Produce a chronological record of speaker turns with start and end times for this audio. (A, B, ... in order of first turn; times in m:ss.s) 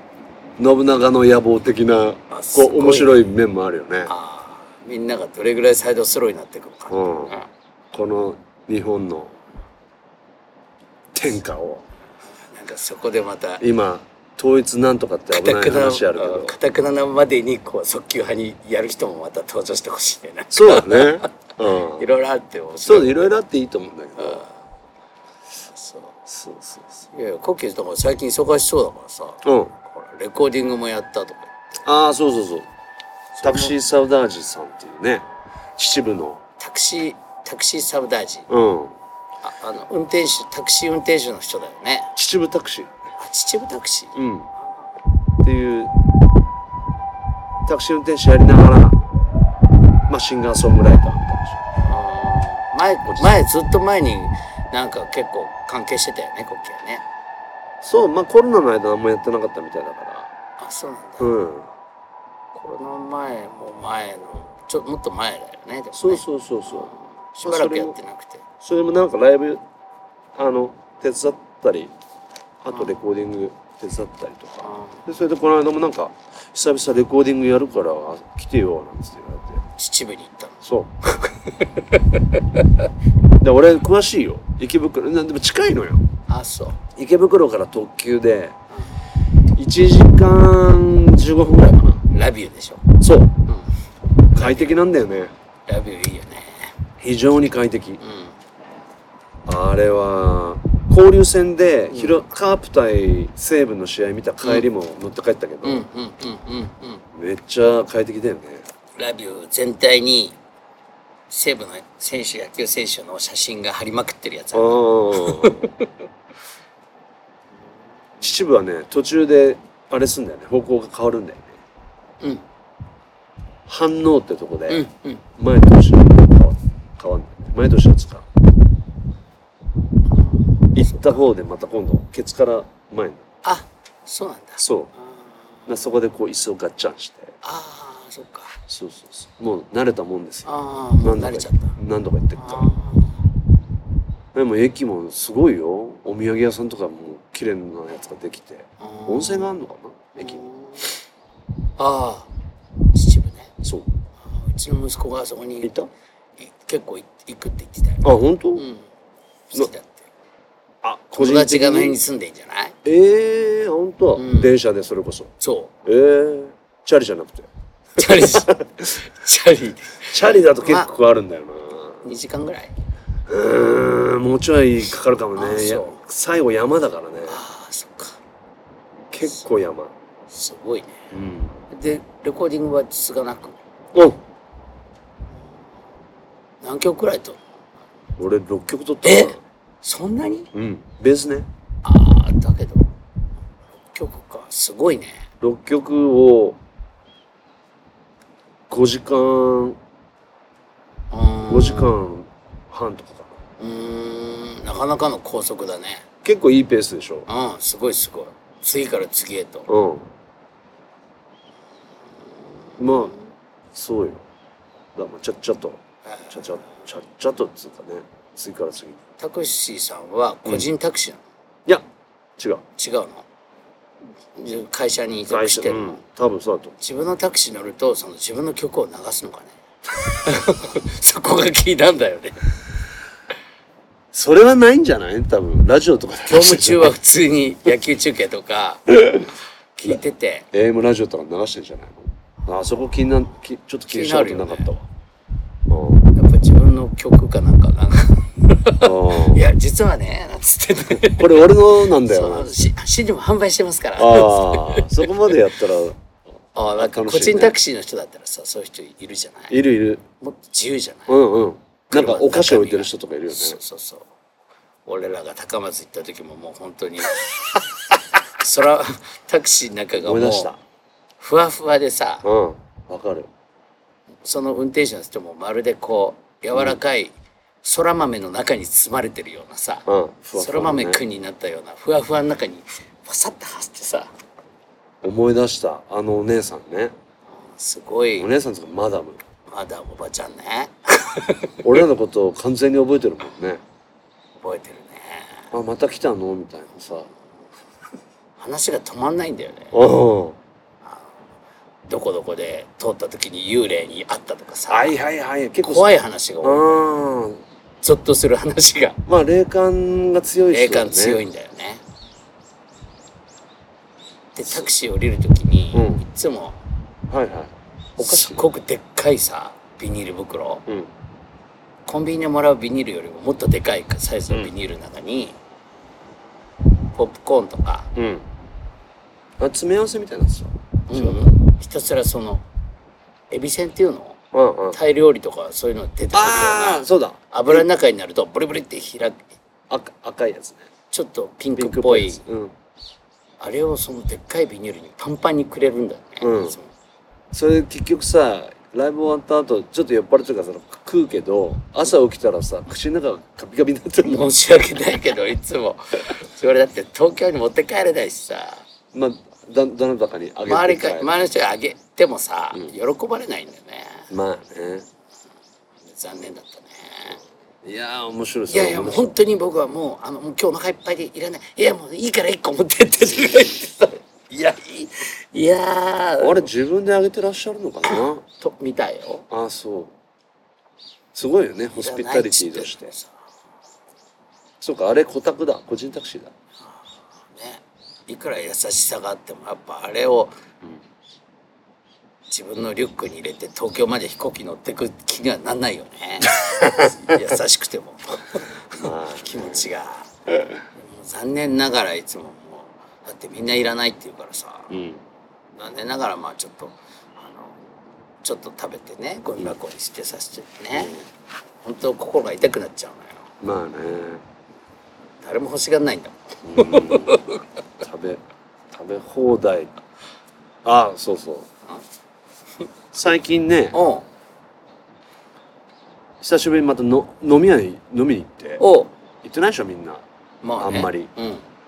0:00.6-0:04.1 A
0:02.3-0:03.2 B
0:04.1-0:07.5 B
0:06.9-0:07.3 A
0:07.9-0:09.3 A
0:11.1-0:11.8 A
0:12.5-0:13.6 B
0:13.6-0:16.6 A
0:15.3-0:21.3 B
0:20.5-0:22.1 A
0:22.0-0:23.3 B
0:22.8-0:24.4 A
0:24.2-0:24.5 B
0:25.7-0:26.2 B
0:26.3-0:26.9 A
0:27.1-0:31.5 B
0:29.4-0:29.7 A
0:31.8-0:32.7 A
0:33.4-0:33.7 B
0:33.4-0:35.2 A
0:35.8-0:36.4 A
0:36.6-0:38.5 B
0:38.5-0:39.0 A
0:39.4-0:42.1 B
0:42.2-0:42.9 A
0:43.2-0:44.1 B
0:44.1-0:44.5 A
0:45.4-0:45.9 A
0:47.7-0:49.0 A
0:50.1-0:51.6 A
0:51.9-0:57.0 B
0:53.1-0:53.4 A
0:57.8-1:00.3 A
1:00.6-1:01.4 B
1:01.2-1:01.7 A
1:02.6-1:08.4 B
1:05.9-1:06.9 A
1:07.4-1:08.0 A
1:08.6-1:09.6 A
1:10.4-1:11.9 A
1:12.6-1:19.6 A
1:12.7-1:13.0 B
1:14.6-1:15.0 B
1:19.8-1:22.4 B
1:20.6-1:20.9 A
1:23.4-1:26.0 A
1:26.3-1:26.8 B
1:27.0-1:28.6 A
1:29.6-1:32.0 A
1:32.0-1:32.8 B
1:33.0-1:33.3 A
1:34.3-1:35.3 A
1:34.4-1:34.8 B
1:35.7-1:36.7 B
1:37.0-1:38.0 A
1:38.0-1:38.4 B
1:39.5-1:45.9 A
1:45.6-1:47.0 B
1:47.1-1:48.6 A
1:49.0-1:50.4 B
1:51.3-1:55.8 B
1:54.5-1:55.7 A
1:58.2-2:01.5 A
2:03.7-2:04.9 A
2:04.7-2:05.2 B
2:05.4-2:08.2 A
2:10.2-2:11.2 B
2:10.8-2:13.2 A
2:13.4-2:14.6 B
2:14.6-2:14.9 A
2:15.7-2:17.3 A
2:17.4-2:18.6 B
2:18.7-2:22.7 A
2:20.5-2:21.8 B
2:22.4-2:23.2 B
2:24.3-2:30.4 A
2:28.8-2:29.6 B
2:30.2-2:30.9 B
2:31.8-2:32.3 B
2:32.9-2:33.5 B
2:33.6-2:33.9 A
2:34.3-2:35.7 B
2:35.6-2:35.9 A
2:36.4-2:38.8 B
2:38.0-2:38.6 A
2:39.5-2:40.1 B
2:40.8-2:42.0 A
2:41.2-2:42.8 B
2:42.8-2:45.3 A
2:44.2-2:44.5 B
2:45.4-2:45.7 B
2:45.8-2:48.9 A
2:48.0-2:50.9 B
2:50.0-2:52.0 A
2:52.0-2:52.7 B
2:53.3-2:57.4 A
2:55.4-2:56.0 B
2:57.3-2:58.2 B
2:59.1-2:59.9 A
3:00.3-3:00.9 B
3:01.1-3:01.6 A
3:01.7-3:03.6 B
3:03.9-3:04.2 A
3:06.6-3:07.4 B
3:08.2-3:09.4 A
3:09.0-3:10.5 B
3:10.5-3:11.5 A
3:11.8-3:12.9 B
3:13.9-3:15.2 B
3:15.4-3:16.6 A
3:18.7-3:19.8 A
3:21.1-3:22.0 B
3:21.5-3:23.4 A
3:23.6-3:26.0 B
3:26.2-3:27.3 A
3:27.3-3:29.7 B
3:29.7-3:30.1 A
3:32.7-3:33.2 B
3:32.8-3:33.1 A
3:33.7-3:34.2 A
3:35.0-3:39.0 A
3:39.2-3:41.2 B
3:42.4-3:42.6 A
3:42.8-3:43.2 B
3:44.4-3:46.0 B
3:45.3-3:46.7 A
3:46.8-3:49.5 B
3:50.1-3:52.4 B
3:54.1-3:56.9 A
3:56.3-3:59.2 B
3:59.8-4:00.5 B
4:00.5-4:04.8 A
4:03.9-4:04.8 B
4:05.7-4:06.0 A
4:06.2-4:15.1 B
4:08.8-4:09.4 A
4:11.0-4:12.6 A
4:14.0-4:16.0 A
4:16.5-4:19.6 B
4:16.8-4:17.6 A
4:19.5-4:20.0 A
4:20.2-4:21.1 B
4:21.1-4:23.6 A
4:21.9-4:24.1 B
4:24.9-4:27.3 B
4:28.4-4:30.5 B
4:30.0-4:30.6 A
4:31.2-4:32.2 B
4:32.2-4:33.3 A
4:34.2-4:37.1 B
4:37.6-4:44.1 B
4:39.9-4:41.0 A
4:45.0-4:46.9 A
4:47.4-4:48.3 B
4:48.2-4:49.2 A
4:49.5-4:51.6 B
4:51.6-4:53.6 A
4:54.4-4:55.5 B
4:55.5-4:57.1 A
4:58.4-4:59.8 B
4:59.7-5:00.4 A
5:00.9-5:01.2 B
5:01.9-5:05.0 B
5:04.7-5:07.4 A
5:05.6-5:06.7 B
5:07.8-5:09.0 B
5:09.1-5:11.2 A
5:10.5-5:11.8 B
5:14.3-5:16.6 B
5:15.7-5:16.0 A
5:17.1-5:18.5 A
5:18.0-5:20.7 B
5:21.9-5:25.4 B
5:27.0-5:27.9 B
5:28.0-5:28.2 A
5:29.4-5:31.3 A
5:30.9-5:32.4 B
5:33.3-5:34.2 B
5:34.3-5:34.8 A
5:34.7-5:39.2 B
5:36.1-5:37.7 A
5:39.7-5:40.7 A
5:40.9-5:42.2 B
5:41.6-5:42.5 A
5:43.4-5:46.7 B
5:46.2-5:46.6 A
5:47.3-5:54.2 A
5:54.0-5:58.6 B
5:58.9-6:01.1 A
6:00.5-6:04.1 B
6:04.1-6:04.9 A
6:05.9-6:07.2 B
6:07.6-6:09.2 A
6:08.5-6:16.5 B
6:16.2-6:18.2 A
6:17.9-6:19.2 B
6:19.3-6:19.9 A
6:21.1-6:22.9 A
6:21.8-6:23.1 B
6:24.6-6:26.3 A
6:27.3-6:30.3 B
6:32.3-6:40.1 B
6:36.4-6:36.9 A
6:38.8-6:39.7 A
6:40.8-6:44.7 B
6:44.7-6:45.0 A
6:45.6-6:47.6 B
6:48.2-6:51.0 B
6:50.7-6:51.0 A
6:51.6-6:53.3 B
6:53.4-6:54.2 A
6:55.2-6:57.4 B
6:56.5-6:57.2 A
6:57.8-6:59.7 A
7:00.6-7:01.5 A
7:02.9-7:03.8 A
7:03.7-7:04.0 B
7:06.2-7:08.6 A
7:08.6-7:08.9 B
7:09.2-7:10.0 A
7:10.4-7:11.4 B
7:10.6-7:11.1 A